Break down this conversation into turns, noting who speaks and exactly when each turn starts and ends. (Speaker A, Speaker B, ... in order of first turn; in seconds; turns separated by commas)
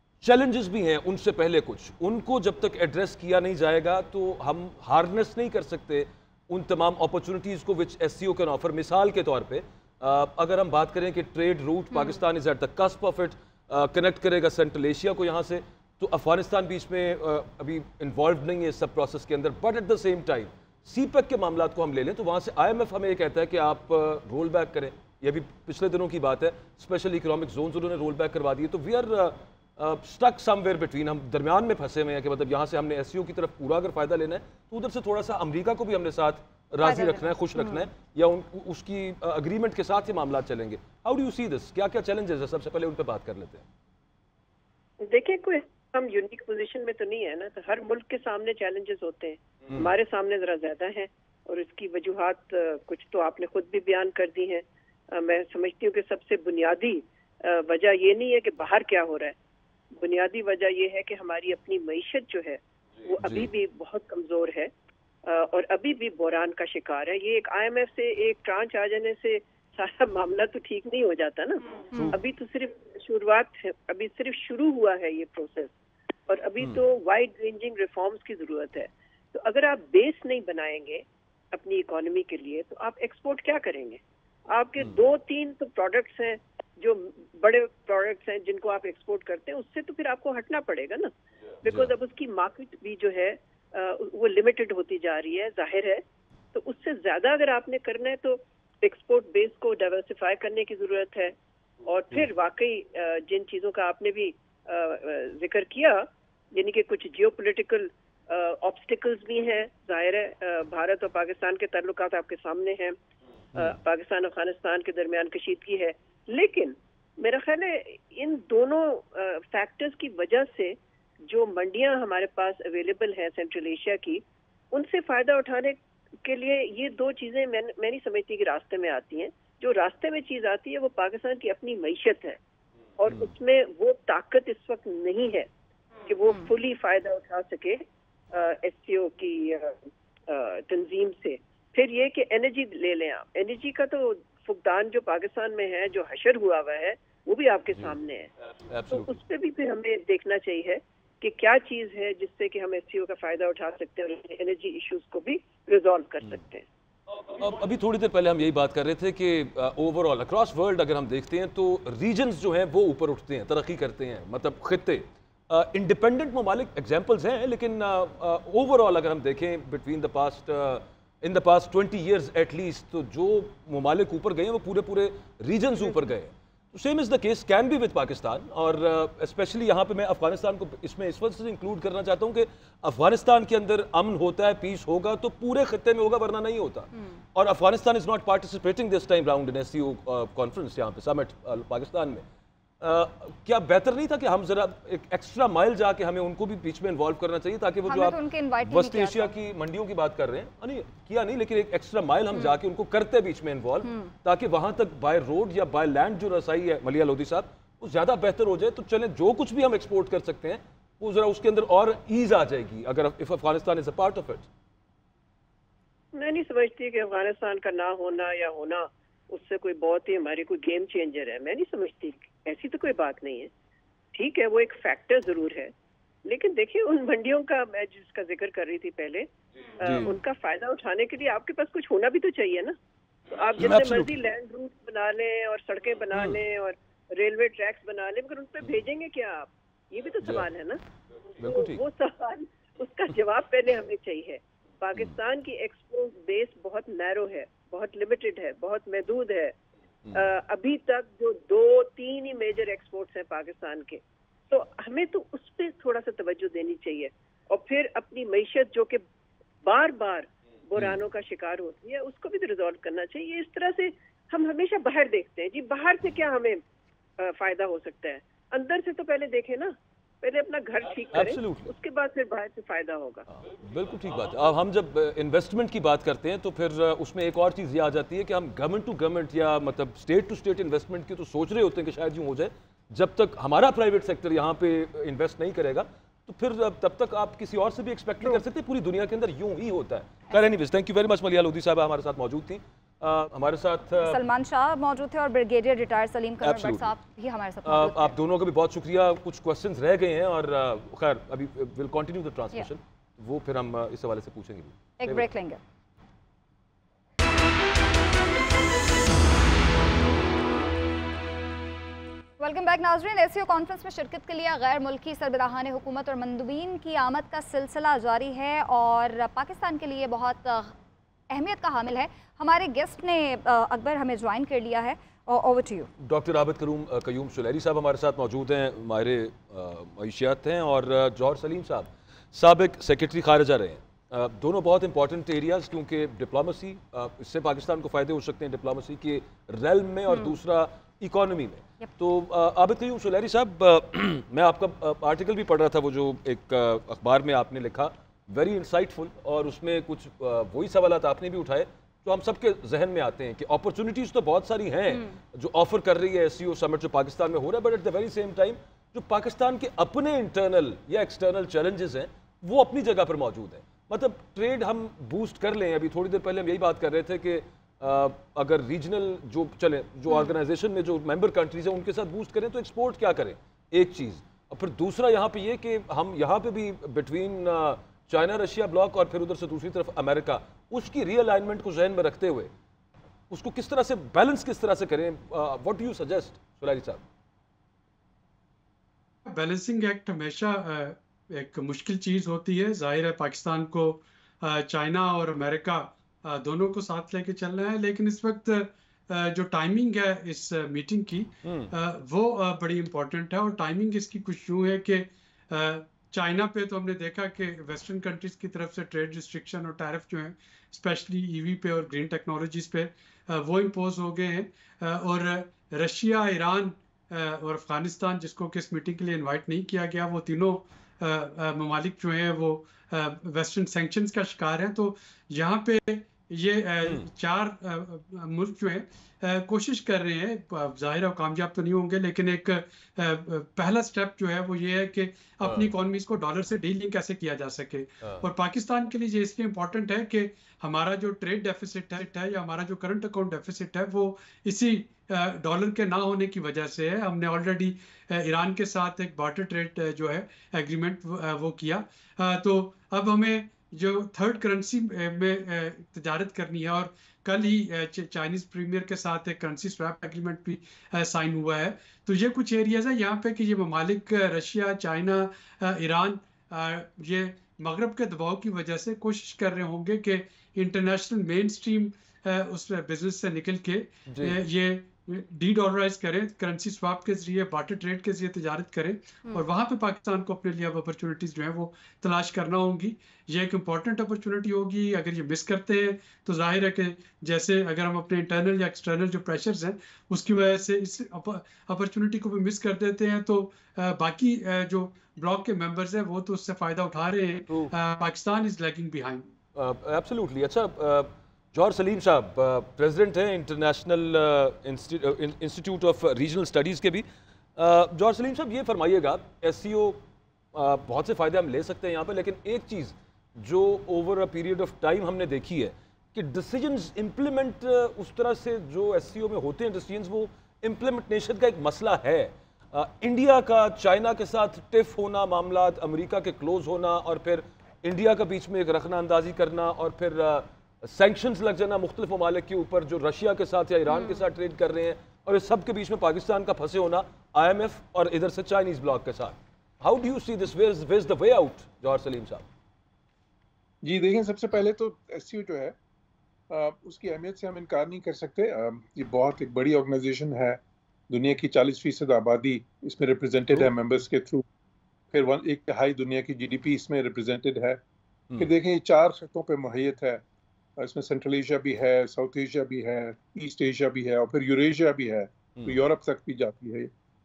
Speaker A: 0.2-43.6, Speaker B: 11.9-12.2, Speaker B: 36.8-37.9, Speaker C: 45.0-59.4, Speaker C: 60.0-64.7, Speaker A: 63.2-63.5, Speaker C: 65.2-75.7, Speaker C: 76.3-91.1, Speaker C: 91.6-96.0, Speaker C: 96.5-113.0, Speaker C: 113.6-132.4, Speaker C: 133.0-135.5, Speaker C: 136.1-148.3, Speaker A: 148.7-149.2, Speaker C: 148.9-156.7, Speaker A: 157.4-192.2, Speaker A: 192.8-214.5, Speaker B: 197.9-199.3, Speaker B: 202.3-202.6, Speaker B: 203.8-204.1, Speaker C: 216.1-223.5, Speaker C: 224.1-225.7, Speaker C: 226.2-229.3, Speaker C: 229.8-232.8, Speaker A: 229.8-230.1, Speaker C: 233.3-240.8, Speaker A: 233.6-234.1, Speaker A: 236.1-236.4, Speaker A: 240.2-240.5, Speaker A: 241.4-241.8, Speaker C: 241.4-249.6, Speaker C: 250.1-259.0, Speaker C: 259.6-266.6, Speaker C: 267.2-273.2, Speaker A: 271.1-271.7, Speaker A: 273.3-294.2, Speaker B: 294.0-298.1, Speaker A: 296.4-296.9, Speaker A: 297.6-305.2, Speaker B: 305.0-305.6, Speaker B: 312.4-320.7, Speaker B: 321.3-325.9, Speaker A: 326.0-382.5, Speaker B: 340.1-340.4, Speaker A: 383.3-387.0, Speaker D: 389.2-499.3, Speaker A: 401.4-401.7, Speaker A: 435.4-435.7, Speaker A: 474.1-474.4, Speaker A: 499.5-507.0, Speaker A: 507.6-510.0, Speaker A: 510.5-542.5, Speaker B: 533.9-534.2, Speaker E: 543.8-545.7, Speaker E: 546.5-554.4, Speaker E: 555.1-557.8, Speaker E: 558.4-560.2, Speaker E: 560.8-566.9